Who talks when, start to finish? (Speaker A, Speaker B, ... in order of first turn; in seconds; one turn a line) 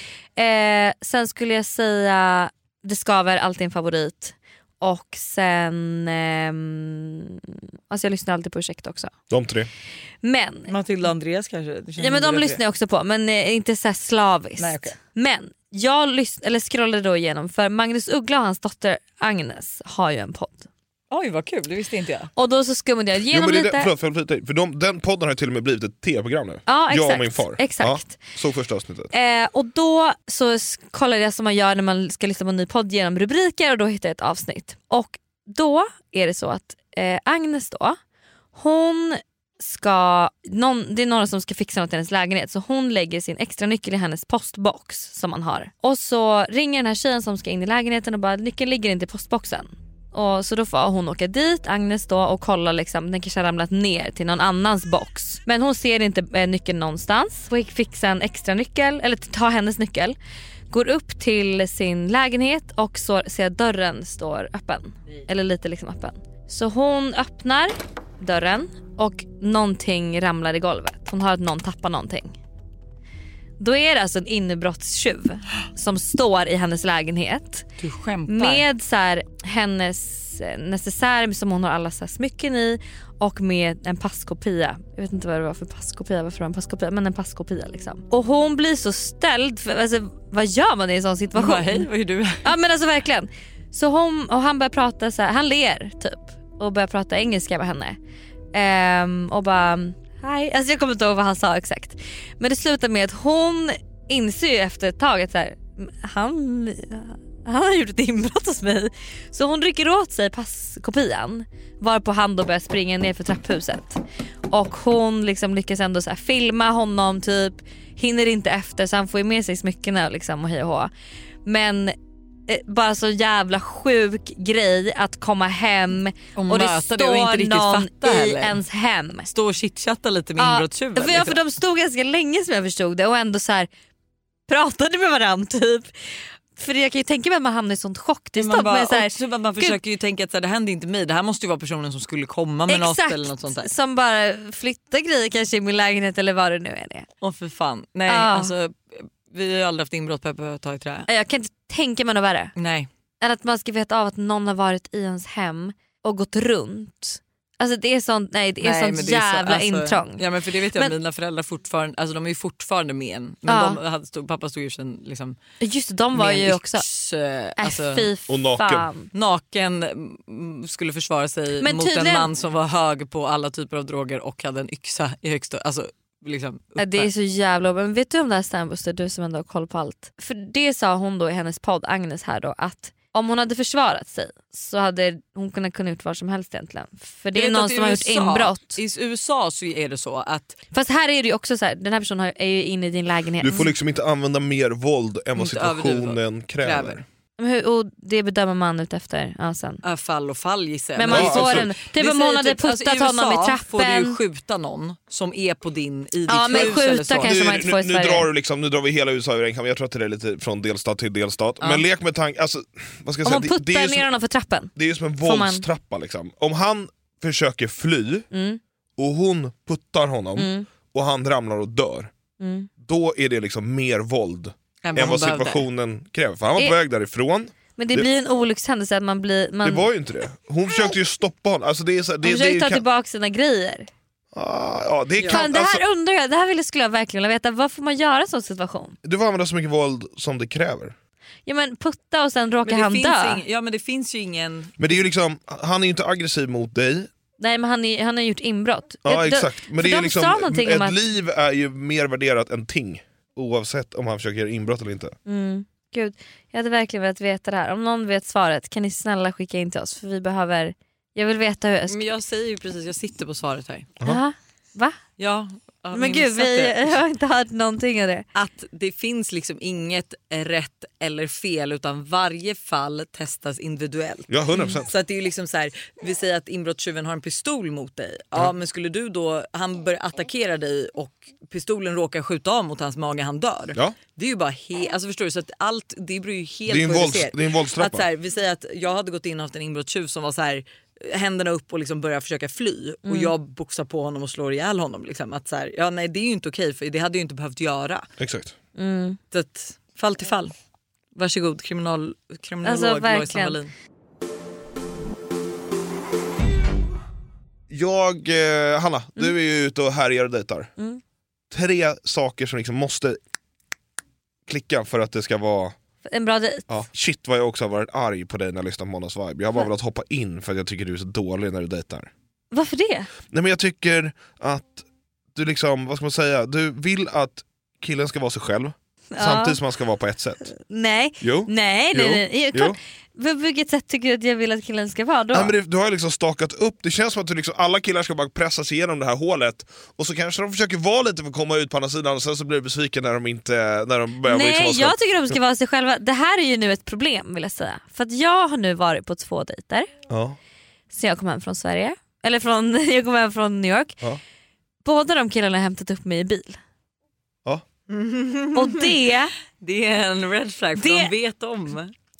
Speaker A: 0.4-9.1
Speaker B: 9.3-9.7
Speaker A: 10.2-10.7
Speaker C: 10.7-12.6
Speaker A: 12.0-20.7
Speaker C: 14.6-14.9
Speaker C: 21.1-22.3
Speaker A: 22.4-23.9
Speaker B: 23.3-29.1
Speaker A: 26.7-28.2
Speaker A: 29.1-38.0
Speaker A: 38.5-60.1
Speaker A: 60.7-72.3
Speaker A: 73.6-77.7
Speaker C: 77.8-78.7
Speaker A: 78.3-91.9
Speaker C: 91.3-92.5
Speaker A: 92.4-98.0
Speaker A: 98.5-120.9
Speaker A: 121.4-122.0
Speaker A: 122.5-129.3
Speaker C: 126.3-128.6
Speaker C: 129.3-131.4
Speaker A: 130.4-133.7
Speaker A: 134.5-135.9
Speaker A: 136.6-139.8
Speaker C: 138.3-143.7
Speaker A: 142.7-147.1
Speaker C: 147.2-151.1
Speaker A: 148.1-148.5
Speaker A: 151.1-152.5
Speaker C: 152.6-152.9
Speaker A: 153.2-160.9
Speaker C: 158.6-165.4
Speaker A: 163.5-163.8
Speaker A: 165.6-166.8
Speaker C: 166.1-168.1
Speaker A: 167.6-169.1
Speaker B: 168.3-168.9
Speaker C: 169.1-177.1
Speaker A: 171.6-172.3
Speaker A: 176.8-188.8
Speaker C: 187.3-190.6
Speaker A: 190.7-193.7
Speaker B: 193.4-197.0
Speaker C: 195.3-197.0
Speaker A: 197.4-199.8
Speaker C: 199.8-207.4
Speaker A: 201.0-204.2
Speaker B: 201.1-201.7
Speaker A: 206.3-208.3
Speaker B: 207.2-214.1
Speaker A: 213.2-215.7
Speaker B: 214.8-218.3
Speaker A: 218.3-218.6
Speaker B: 219.0-222.1
Speaker A: 220.4-220.7
Speaker A: 222.4-222.7
Speaker B: 222.8-228.1
Speaker C: 224.8-225.6
Speaker A: 227.8-229.9
Speaker B: 229.6-232.8
Speaker A: 232.2-233.9
Speaker B: 234.3-235.8
Speaker C: 235.2-235.4
Speaker A: 235.3-239.0
Speaker B: 239.0-240.9
Speaker A: 241.4-243.4
Speaker C: 242.6-244.7
Speaker B: 244.8-247.1
Speaker A: 247.4-251.0
Speaker B: 249.0-255.1
Speaker A: 255.2-262.0
Speaker C: 261.9-263.9
Speaker A: 264.0-265.0
Speaker C: 265.2-267.0
Speaker A: 265.9-268.2
Speaker C: 268.3-298.1
Speaker B: 274.3-274.9
Speaker B: 286.7-288.1
Speaker A: 293.1-293.3
Speaker B: 298.2-298.5
Speaker A: 298.8-299.2
Speaker C: 299.3-300.5
Speaker C: 301.1-303.7
Speaker A: 302.6-303.6
Speaker B: 307.7-310.7
Speaker B: 311.5-313.2
Speaker B: 314.5-315.7
Speaker A: 316.1-316.7
Speaker B: 316.7-322.1
Speaker A: 322.5-323.1
Speaker B: 323.3-330.5
Speaker A: 329.1-329.6
Speaker A: 330.5-335.5
Speaker B: 331.2-332.8
Speaker B: 335.3-345.4
Speaker A: 344.2-349.9
Speaker B: 350.1-350.4
Speaker A: 350.9-354.0
Speaker A: 354.8-356.6
Speaker C: 357.9-358.9
Speaker A: 358.5-359.3
Speaker C: 359.6-361.9
Speaker A: 360.8-361.1